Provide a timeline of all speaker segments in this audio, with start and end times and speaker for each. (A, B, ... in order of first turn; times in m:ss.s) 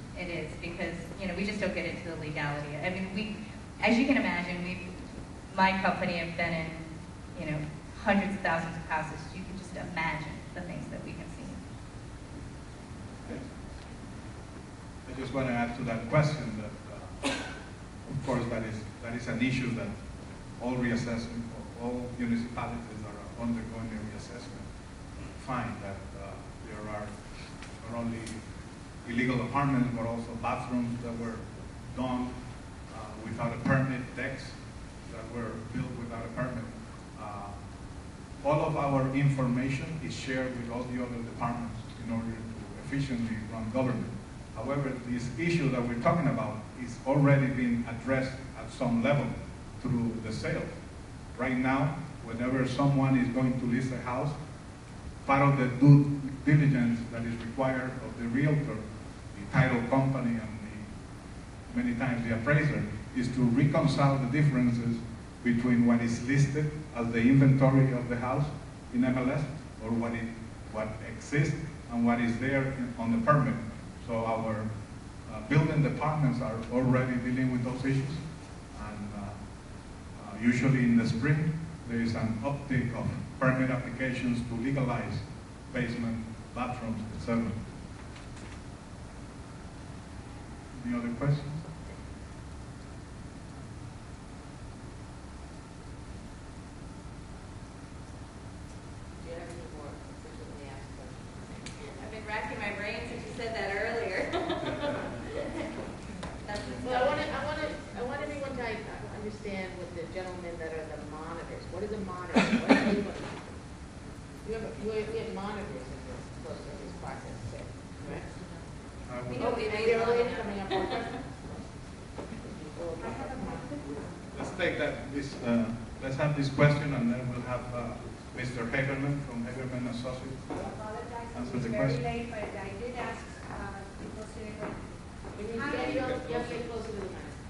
0:00.1-0:04.9 A
0:05.5-0:11.6 A
0:15.0-0:17.2 B
0:18.0-0:20.0 B
0:20.6-0:24.7 B
0:25.4-0:27.1 B
0:27.8-0:28.4 B
0:29.0-0:32.4 B
0:32.9-0:37.6 B
0:38.4-0:50.8 B
0:51.3-0:54.4 B
0:55.2-1:00.9 B
1:01.7-1:14.7 B
1:15.2-1:19.4 B
1:20.1-1:27.6 B
1:30.7-1:31.6 B
1:39.2-1:42.0 C
1:41.8-1:44.8 A
1:46.4-1:47.3 A
1:46.8-1:53.5 C
1:54.4-1:58.3 C
1:59.1-1:59.5 B
1:59.3-2:00.5 A
1:59.4-2:01.6 C
2:02.5-2:03.9 C
2:03.0-2:04.1 D
2:04.3-2:10.5 B
2:10.5-2:16.6 D
2:11.3-2:12.0 B
2:15.4-2:17.4 C